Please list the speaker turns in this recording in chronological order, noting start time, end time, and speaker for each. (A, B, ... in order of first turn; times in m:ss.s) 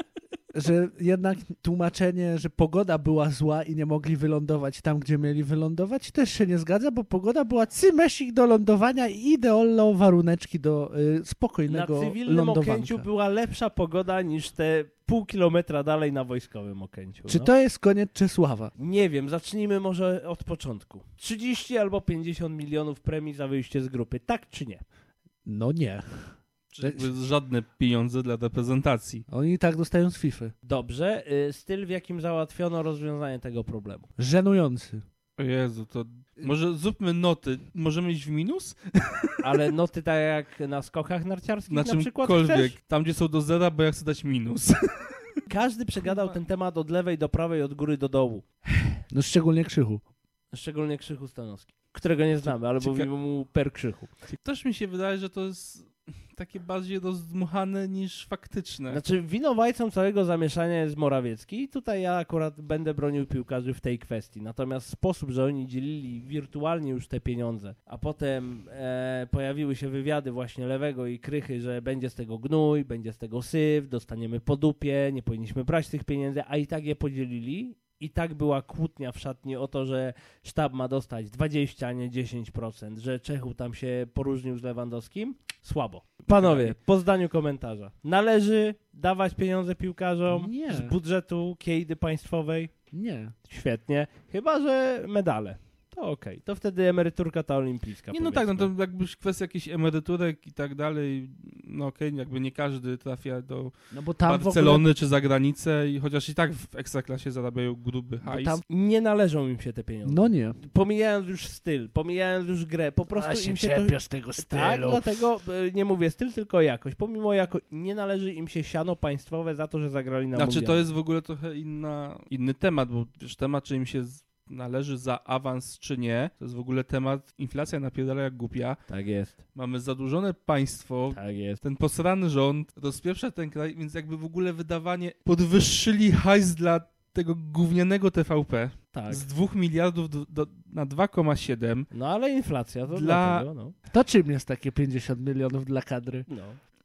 0:00.5-0:13.1 A
0:11.7-0:17.5 B
0:17.3-0:18.7 A
0:18.8-0:24.8 B
0:25.4-0:27.1 A
0:26.7-0:29.2 C
0:29.3-0:30.5 A
0:30.6-0:34.1 B
0:34.2-0:35.0 A
0:35.4-0:39.4 C
0:39.4-0:42.8 B
0:41.7-0:45.4 C
0:45.5-0:48.5 B
0:49.1-0:50.0 A
0:50.5-0:54.1 B
0:52.8-0:53.1 C
0:54.3-0:59.0 C
0:58.9-1:32.7 B
1:26.5-1:26.7 A
1:30.3-1:30.9 A
1:32.9-1:33.3 A
1:33.4-1:38.7 B
1:38.1-1:43.7 C
1:43.9-1:44.8 A
1:44.2-1:48.6 C
1:48.3-1:48.6 A
1:48.7-2:00.8 B
1:50.0-1:50.6 A
1:53.1-1:55.0 A
2:00.4-2:08.8 C
2:08.9-2:09.4 B
2:09.6-2:21.9 C
2:11.1-2:11.6 B
2:18.9-2:19.2 B
2:21.9-2:23.8 B
2:22.9-2:23.5 C
2:23.9-2:26.3 A
2:26.3-2:26.6 B